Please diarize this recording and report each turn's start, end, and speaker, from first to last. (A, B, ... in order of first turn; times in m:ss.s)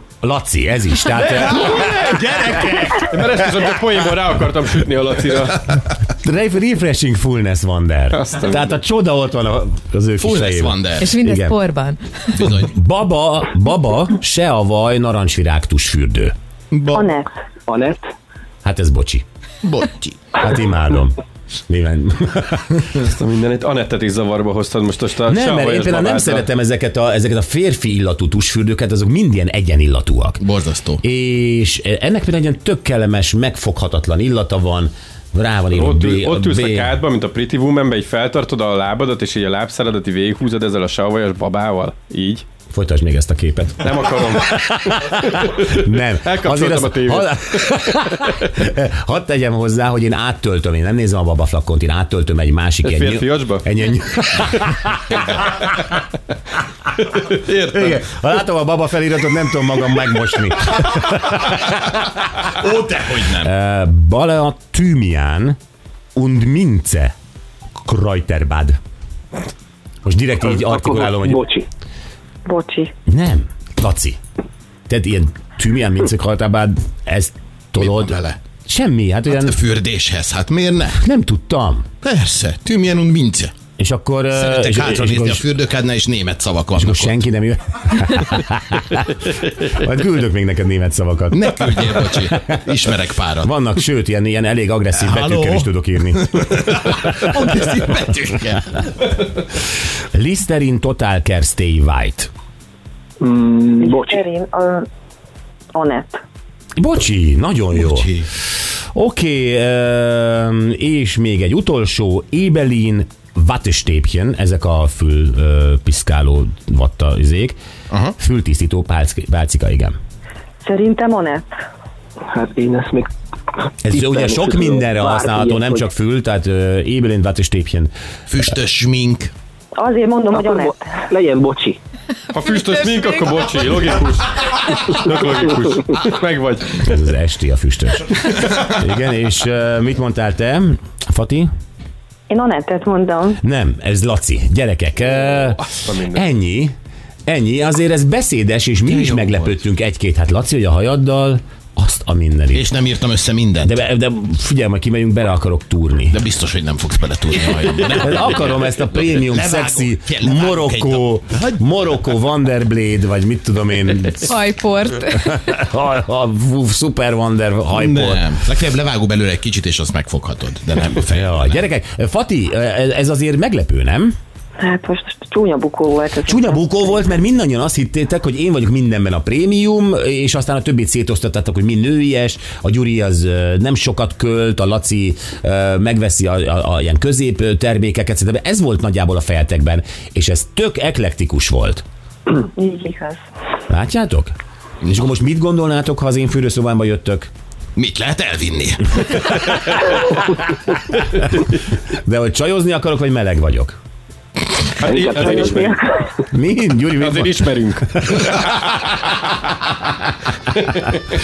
0:00.2-0:03.0 A
0:01.2-0:05.6 B
0:06.1-0:11.6 A
0:08.1-0:08.6 B
0:10.2-0:11.1 C
0:11.0-0:12.5 D
0:12.3-0:12.7 C
0:12.5-0:16.3 A
0:16.7-0:17.1 C
0:16.9-0:17.3 E
0:17.7-0:18.1 F
0:18.6-0:19.2 A
0:19.6-0:20.2 C
0:20.3-0:23.1 A
0:23.0-0:26.4 B
0:25.2-0:30.4 A
0:30.4-0:31.0 C
0:31.0-0:36.9 A
0:35.7-0:42.4 B
0:42.7-0:55.2 A
0:43.8-0:48.4 B
0:52.8-0:53.7 B
0:57.0-0:58.0 B
0:57.7-1:02.0 A
1:02.4-1:03.5 C
1:03.4-1:05.6 A
1:06.1-1:07.1 A
1:07.8-1:08.8 A
1:10.0-1:11.4 A
1:10.5-1:11.6 F
1:12.4-1:12.9 E
1:13.0-1:14.2 A
1:14.9-1:19.6 A
1:17.8-1:18.4 C
1:19.3-1:21.0 C
1:20.9-1:21.9 A
1:22.0-1:23.5 C
1:23.8-1:25.4 A
1:24.3-1:27.2 C
1:26.8-1:32.5 A
1:31.3-1:33.5 C
1:33.4-1:37.3 A
1:35.0-1:38.9 C
1:40.1-1:42.3 A
1:43.2-1:44.2 F
1:43.8-1:44.9 E
1:45.7-1:46.2 E
1:46.8-1:48.2 A
1:47.8-1:48.3 C
1:48.9-1:57.6 A
1:58.2-1:59.9 A
2:00.6-2:01.4 E
2:02.3-2:03.1 F
2:03.8-2:07.9 A
2:03.9-2:05.9 F
2:08.3-2:09.3 C
2:09.7-2:10.8 E
2:10.3-2:11.8 F
2:12.3-2:17.0 B
2:12.3-2:13.5 D
2:16.8-2:21.5 A
2:22.3-2:23.4 E
2:23.4-2:26.7 A
2:25.2-2:26.2 B
2:27.3-2:32.6 A
2:28.8-2:29.6 C
2:32.5-2:33.8 C
2:33.6-2:36.2 A
2:36.1-2:41.7 C
2:37.8-2:44.4 A
2:44.3-2:45.6 D
2:45.1-2:48.3 A
2:47.7-2:51.6 C
2:51.1-2:54.1 A
2:54.6-2:56.7 E
2:56.2-3:11.8 A
3:12.5-3:13.2 E
3:13.7-3:17.3 A
3:17.8-3:19.8 C
3:21.9-3:23.8 A
3:24.8-3:25.8 B
3:24.8-3:25.8 F
3:26.3-3:28.2 A
3:27.0-3:28.8 B
3:30.5-3:31.0 B